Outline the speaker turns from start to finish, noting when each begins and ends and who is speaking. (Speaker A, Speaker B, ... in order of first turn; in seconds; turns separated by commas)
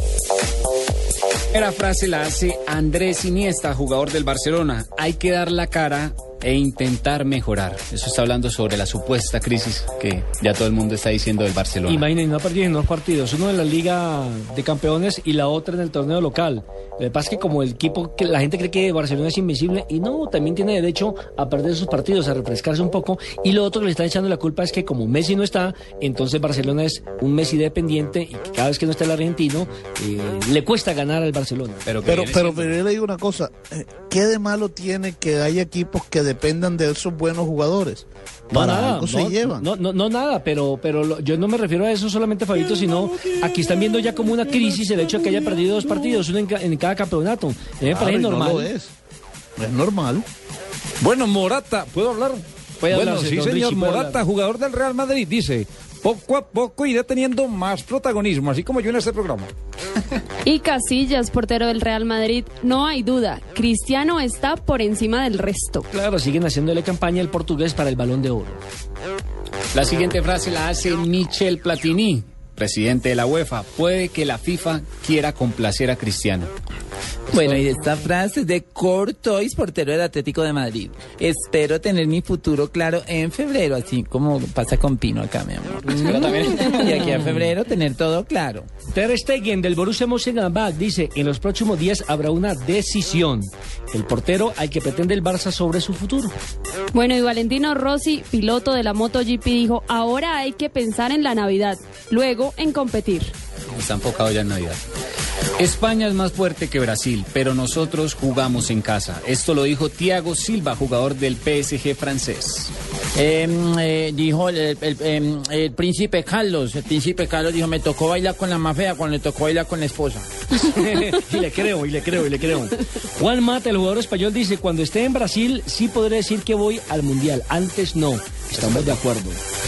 Speaker A: 1.5-12.0, Speaker B: 11.8-31.8, Speaker A: 31.9-32.8, Speaker C: 32.0-39.7, Speaker B: 38.5-48.7, Speaker C: 47.9-48.9, Speaker C: 49.6-50.2, Speaker D: 51.0-59.5, Speaker B: 52.8-54.2, Speaker E: 60.4-65.8, Speaker B: 65.9-68.6, Speaker A: 69.7-76.5, Speaker F: 77.3-88.7, Speaker A: 85.9-87.1, Speaker B: 88.9-96.3, Speaker E: 96.9-103.3, Speaker A: 103.7-104.8, Speaker A: 105.6-112.7, Speaker F: 113.1-120.3, Speaker B: 120.5-129.4, Speaker A: 128.5-128.9